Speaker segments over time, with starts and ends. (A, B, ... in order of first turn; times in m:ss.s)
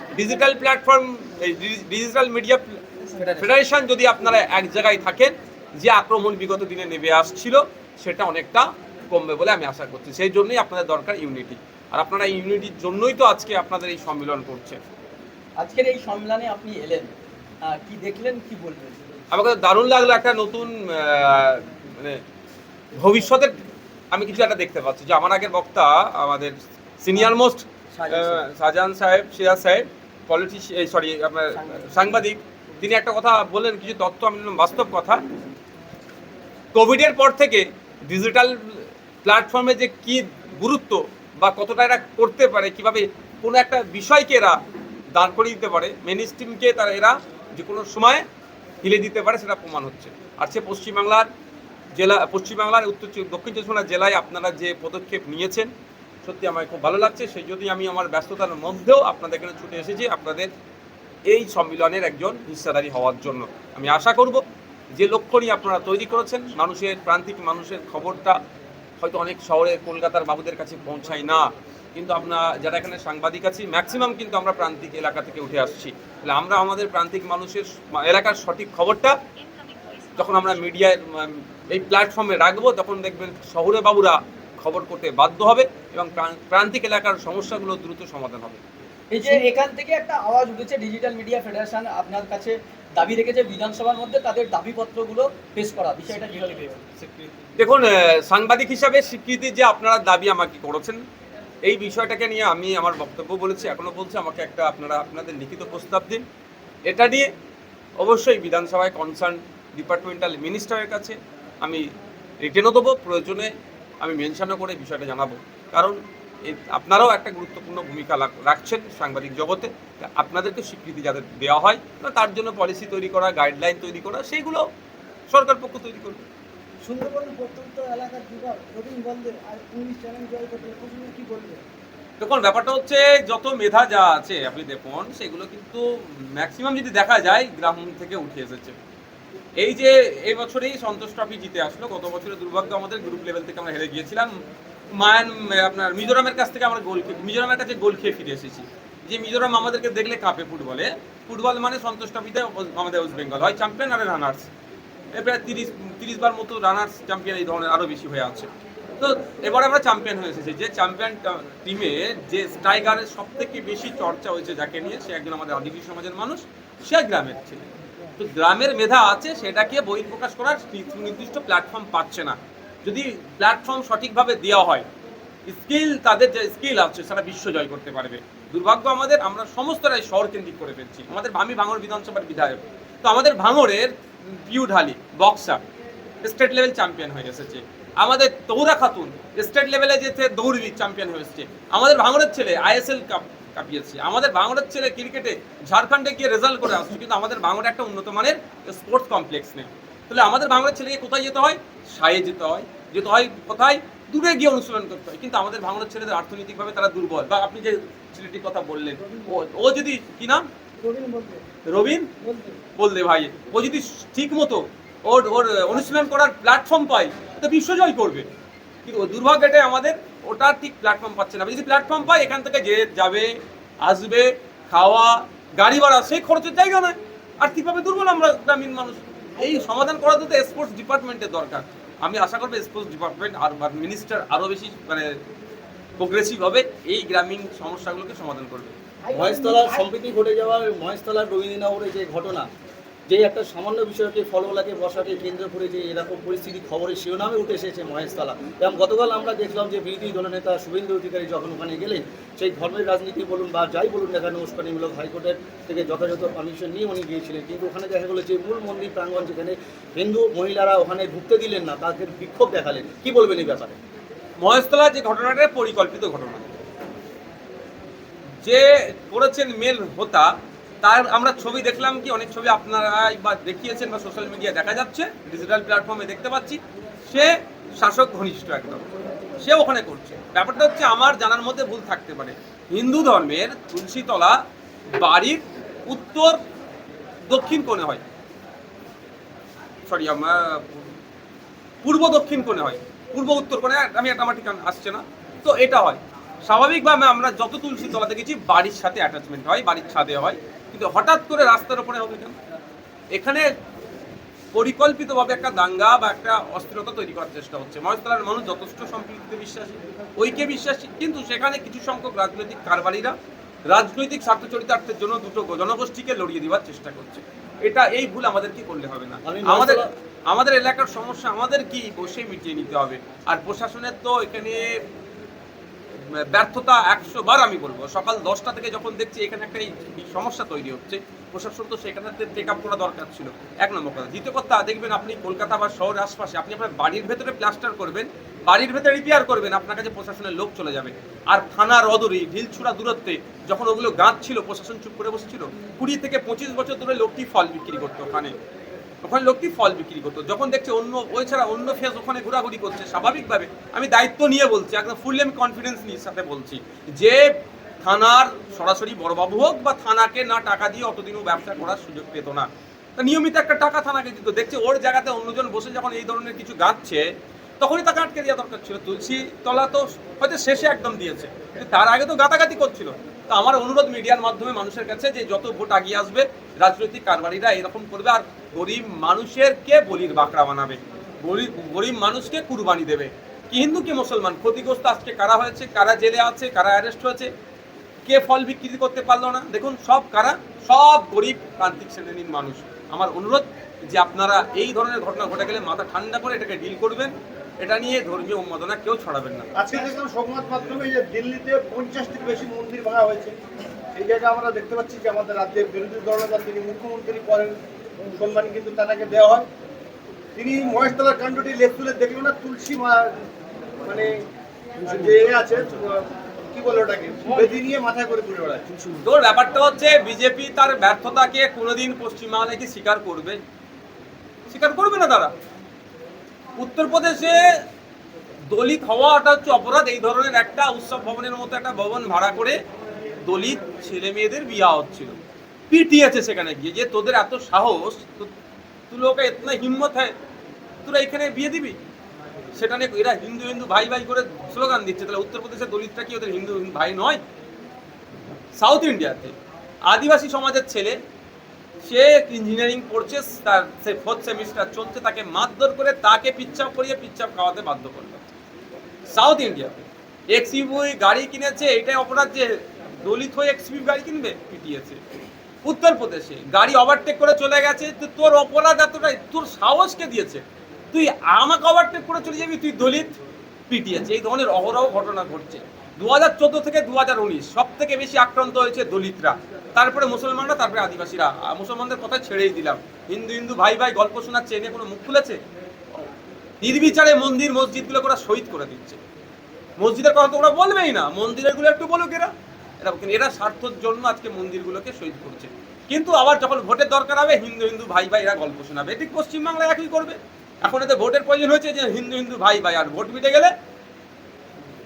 0:00.1-0:02.8 A
0:03.2-0:03.4 B
0:03.4-0:14.8 A
0:15.6-0:17.1 B
0:17.6-0:19.0 B
0:19.3-0:22.2 A
0:23.0-0:23.5 A
0:24.1-0:35.2 A
0:27.9-0:28.3 B
0:36.7-0:44.6 A
0:45.1-0:48.2 A
0:48.8-0:51.3 A
0:51.9-0:55.7 A
0:56.2-1:00.5 A
1:01.3-1:04.4 A
1:04.9-1:08.4 A
1:09.0-1:19.2 A
1:20.2-1:28.6 A
1:29.1-1:37.3 B
1:37.6-1:41.0 A
1:41.6-1:46.2 A
1:46.9-1:47.3 A
1:48.0-1:51.8 A
1:52.4-2:04.6 A
2:05.3-2:06.2 A
2:06.9-2:11.6 C
2:12.2-2:18.8 A
2:19.6-2:24.3 A
2:24.9-2:34.5 A
2:35.1-2:54.9 A
2:55.5-3:05.6 A
3:06.2-3:30.4 A
3:31.0-3:31.4 C
3:31.7-3:32.1 A
3:32.8-3:38.3 A
3:38.8-3:43.3 A
3:43.8-3:55.1 A
3:56.0-3:58.7 A
3:59.1-4:02.5 D
4:03.1-4:23.8 D
4:24.4-4:26.6 A
4:28.4-4:30.3 A
4:30.8-4:38.9 A
4:39.4-4:44.4 A
4:44.9-4:46.4 A
4:47.3-4:48.0 A
4:49.9-4:50.9 A
4:51.8-5:02.4 A
5:03.1-5:03.5 A
5:04.5-5:13.1 A
5:13.7-5:24.7 A
5:19.2-5:19.9 D
5:26.1-5:48.3 A
5:49.0-5:57.2 A
5:57.8-6:07.0 A
6:07.6-6:27.3 A
6:28.0-6:39.5 A
6:39.5-6:43.4 E
6:43.9-6:49.5 E
6:50.3-6:53.1 E
6:53.8-6:54.2 E
6:54.8-6:58.7 E
6:59.0-7:03.4 A
7:04.5-7:05.3 A
7:06.6-7:07.4 A
7:08.5-7:12.6 A
7:13.2-7:15.2 A
7:15.7-7:18.3 A
7:18.9-7:20.1 A
7:20.8-7:21.8 A
7:22.6-7:27.2 A
7:28.5-7:29.3 A
7:29.9-7:31.0 A
7:31.8-7:38.2 A
7:39.1-7:45.0 A
7:45.6-7:53.1 A
7:53.7-8:05.4 A
8:06.6-8:09.0 A
8:09.8-8:23.5 A